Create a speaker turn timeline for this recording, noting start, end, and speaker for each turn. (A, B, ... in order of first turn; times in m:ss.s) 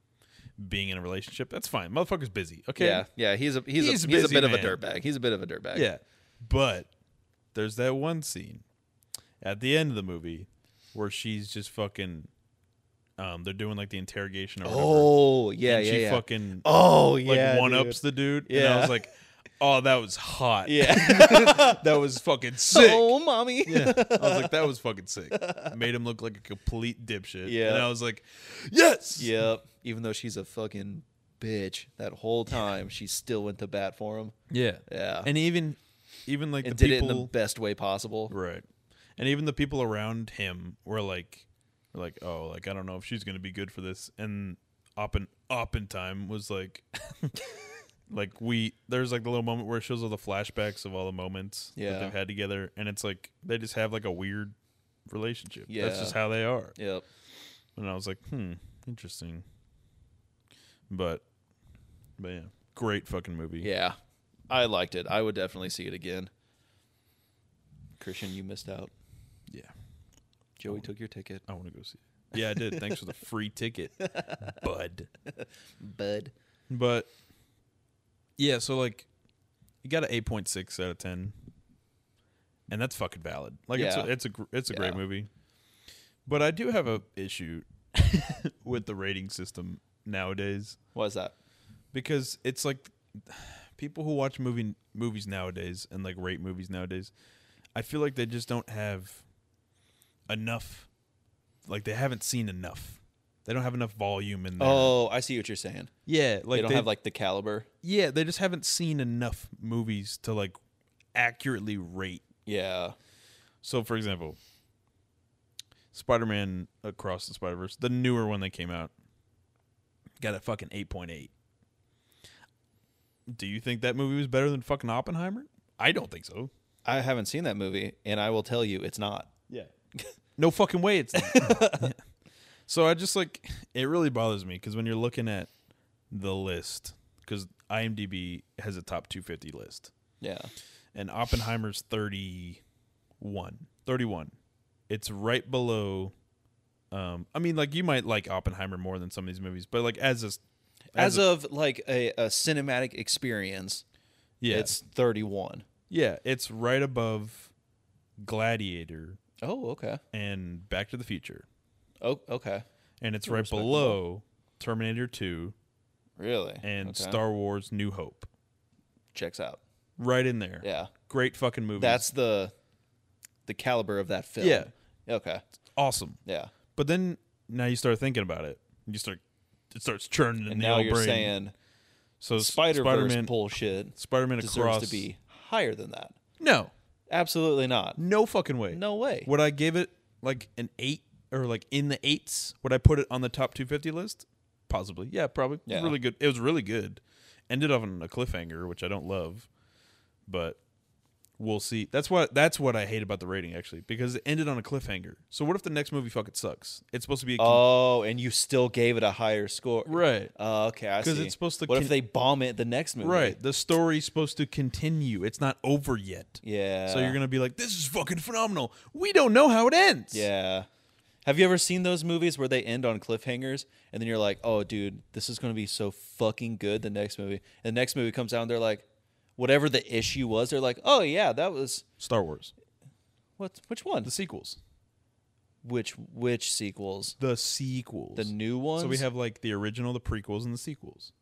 0:00.6-0:03.0 A
0:02.8-0:05.9 B
0:03.8-0:04.8 A
0:05.7-0:06.9 A
0:07.5-0:08.6 A
0:09.4-0:12.3 A
0:13.2-0:15.1 A
0:14.6-0:19.0 B
0:15.6-0:23.1 A
0:20.6-0:22.0 B
0:22.7-0:24.7 B
0:23.6-0:29.4 A
0:25.3-0:25.7 B
0:27.4-0:27.9 B
0:29.2-0:34.3 B
0:34.5-0:37.3 A
0:34.9-0:35.3 B
0:36.6-0:38.3 B
0:38.3-0:38.6 A
0:39.2-0:47.5 A
0:48.1-0:54.5 A
0:51.8-0:52.1 B
0:55.1-0:56.8 A
0:55.7-0:56.2 B
0:56.8-0:57.0 B
0:57.8-0:59.4 A
1:00.9-1:01.2 A
1:02.2-1:03.7 A
1:03.6-1:04.0 B
1:04.5-1:06.3 B
1:08.0-1:08.9 B
1:10.6-1:11.4 B
1:11.5-1:15.1 A
1:12.3-1:13.1 B
1:14.0-1:14.6 B
1:15.3-1:16.3 B
1:16.7-1:17.1 A
1:18.4-1:19.1 A
1:19.8-1:21.3 A
1:22.7-1:25.3 A
1:23.7-1:24.1 B
1:24.7-1:25.0 B
1:26.2-1:30.8 A
1:30.9-1:31.3 B
1:31.9-1:37.1 A
1:37.7-1:39.2 A
1:40.3-1:40.9 A
1:41.6-1:45.0 A
1:44.6-1:45.9 B
1:46.0-1:46.9 A
1:46.5-1:47.7 B
1:47.8-1:50.5 A
1:51.1-1:52.2 A
1:52.4-1:52.9 B
1:53.6-1:54.4 A
1:55.9-1:58.9 A
2:00.2-2:01.3 A
2:03.3-2:06.5 A
2:06.8-2:09.3 B
2:10.4-2:12.0 A
2:11.1-2:11.9 B
2:12.7-2:15.5 A
2:16.1-2:19.9 A
2:20.2-2:20.5 B
2:20.9-2:22.6 A
2:23.2-2:24.3 A
2:24.9-2:26.1 A
2:26.9-2:30.4 A
2:30.9-2:33.8 B
2:30.9-2:31.3 A
2:34.4-2:34.7 A
2:34.5-2:35.6 B
2:35.9-2:37.5 A
2:38.2-2:39.2 A
2:39.4-2:40.0 B
2:40.1-2:41.4 A
2:42.0-2:42.6 B
2:43.0-2:45.5 A
2:43.2-2:44.0 B
2:46.2-2:47.2 B
2:46.6-2:48.3 A
2:49.1-2:49.6 B
2:50.0-2:52.1 A
2:50.6-2:50.9 B
2:51.8-2:52.5 B
2:53.5-2:55.4 B
2:54.4-2:54.7 A
2:55.7-2:56.2 A
2:56.2-2:56.5 B
2:56.8-3:01.3 A
3:00.5-3:01.5 B
3:02.2-3:03.3 A
3:02.4-3:06.1 B
3:03.9-3:05.0 A
3:06.4-3:06.7 A
3:07.1-3:08.0 B
3:08.0-3:19.5 A
3:08.7-3:09.3 B
3:15.6-3:15.9 B
3:20.3-3:20.6 A
3:21.4-3:27.6 A
3:27.4-3:33.4 B
3:29.9-3:30.3 A
3:31.0-3:31.9 A
3:33.0-3:40.3 A
3:36.4-3:37.2 B
3:40.1-3:40.7 B
3:41.2-3:48.8 B
3:49.4-3:51.8 B
3:52.0-3:52.5 A
3:53.4-3:54.1 B
3:54.0-3:54.6 A
3:55.6-3:57.2 B
3:57.2-4:01.1 A
3:58.2-3:59.0 B